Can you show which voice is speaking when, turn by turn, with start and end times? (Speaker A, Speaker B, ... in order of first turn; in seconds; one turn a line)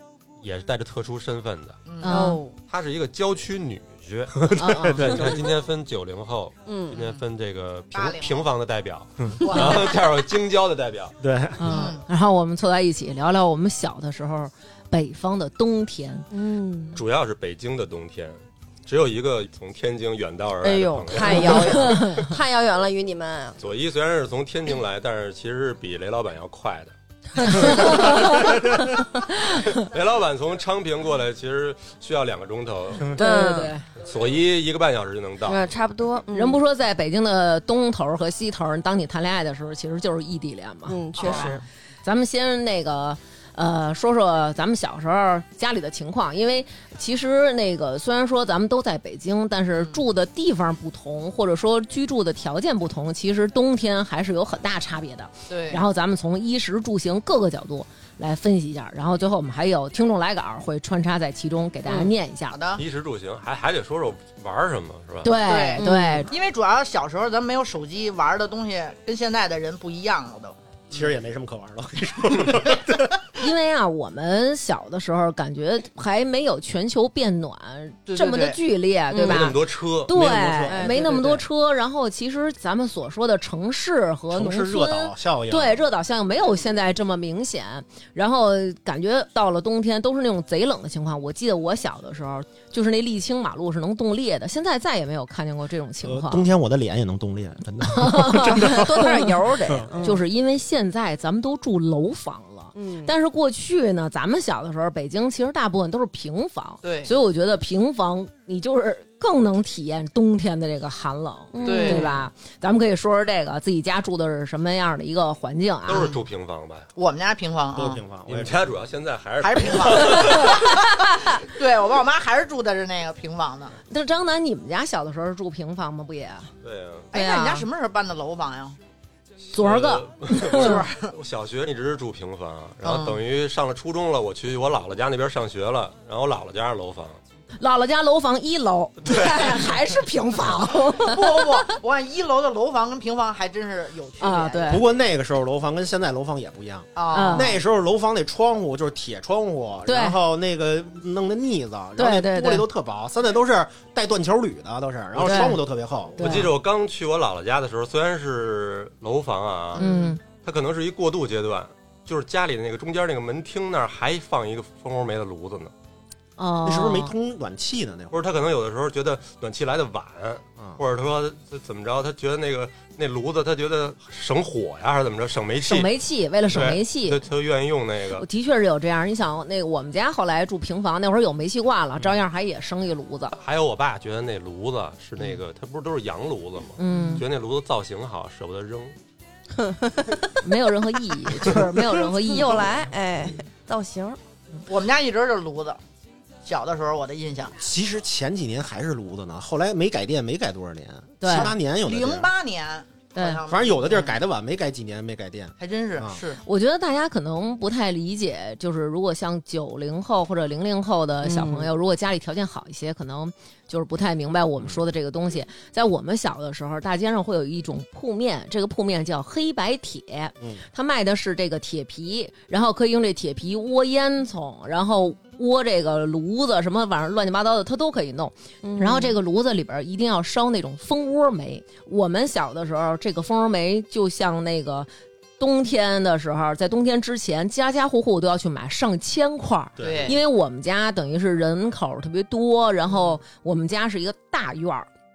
Speaker A: 0.4-1.8
Speaker B: 1.9-2.2
Speaker C: 2.0-2.4
Speaker D: 2.0-2.5
Speaker A: 2.7-11.2
Speaker E: 4.3-5.5
Speaker C: 4.6-5.2
Speaker D: 6.7-6.9
Speaker B: 6.9-7.2
Speaker B: 7.9-8.5
Speaker B: 9.4-10.0
Speaker E: 11.2-11.8
Speaker C: 11.6-16.3
Speaker B: 11.7-12.0
Speaker D: 16.3-17.0
Speaker A: 16.9-22.3
Speaker D: 20.6-23.6
Speaker C: 21.3-22.3
Speaker A: 23.6-28.5
Speaker D: 27.4-29.0
Speaker C: 27.4-29.7
Speaker A: 29.5-33.1
Speaker C: 33.1-33.8
Speaker D: 33.2-33.8
Speaker A: 34.0-35.6
Speaker D: 35.4-36.6
Speaker C: 36.3-62.6
Speaker D: 40.9-41.6
Speaker B: 41.2-41.6
Speaker B: 55.5-55.8
Speaker B: 62.5-62.8
Speaker A: 62.8-65.4
Speaker C: 65.2-66.3
Speaker B: 65.4-70.6
Speaker D: 65.8-66.2
Speaker E: 70.9-73.2
Speaker C: 73.4-96.5
Speaker B: 78.1-78.6
Speaker D: 79.1-79.5
Speaker A: 79.2-80.9
Speaker E: 80.2-80.6
Speaker D: 80.7-81.3
Speaker E: 84.3-85.8
Speaker E: 96.0-99.9
Speaker C: 97.8-99.3
Speaker D: 98.5-100.2
Speaker C: 100.0-116.1
Speaker D: 102.7-103.1
Speaker B: 106.8-107.1
Speaker D: 111.5-112.2
Speaker B: 111.6-112.1
Speaker A: 115.9-116.9
Speaker B: 115.9-116.2
Speaker B: 117.0-118.0
Speaker E: 117.7-118.7
Speaker A: 118.3-120.8
Speaker B: 119.4-123.8
Speaker C: 123.9-126.5
Speaker A: 126.6-127.1
Speaker C: 127.1-127.7
Speaker B: 127.1-128.8
Speaker A: 129.4-137.2
Speaker C: 129.5-130.8
Speaker B: 130.5-131.1
Speaker B: 132.8-133.2
Speaker C: 137.6-141.7
Speaker A: 139.0-139.6
Speaker B: 140.9-144.9
Speaker C: 144.2-144.8
Speaker E: 144.7-156.2
Speaker B: 146.9-147.5
Speaker C: 147.1-147.6
Speaker C: 149.8-150.2
Speaker C: 152.0-152.7
Speaker C: 155.2-155.6
Speaker C: 156.2-156.5
Speaker A: 156.2-165.7
Speaker B: 159.7-160.1
Speaker C: 159.8-160.2
Speaker C: 166.4-167.1
Speaker E: 166.6-168.2
Speaker A: 168.1-175.9
Speaker C: 175.6-177.2
Speaker A: 176.5-178.2
Speaker C: 178.2-183.4
Speaker A: 183.4-188.9
Speaker C: 186.8-187.2
Speaker D: 189.6-190.5
Speaker C: 190.4-192.7
Speaker D: 191.5-194.2
Speaker B: 194.7-195.8
Speaker B: 196.4-197.5
Speaker E: 197.6-202.3
Speaker C: 201.2-201.5
Speaker B: 201.8-204.1
Speaker C: 203.1-203.4
Speaker E: 203.4-206.2
Speaker B: 205.6-206.4
Speaker C: 206.4-244.9
Speaker D: 211.2-211.7
Speaker D: 228.6-229.1
Speaker E: 239.8-240.1
Speaker B: 239.8-240.2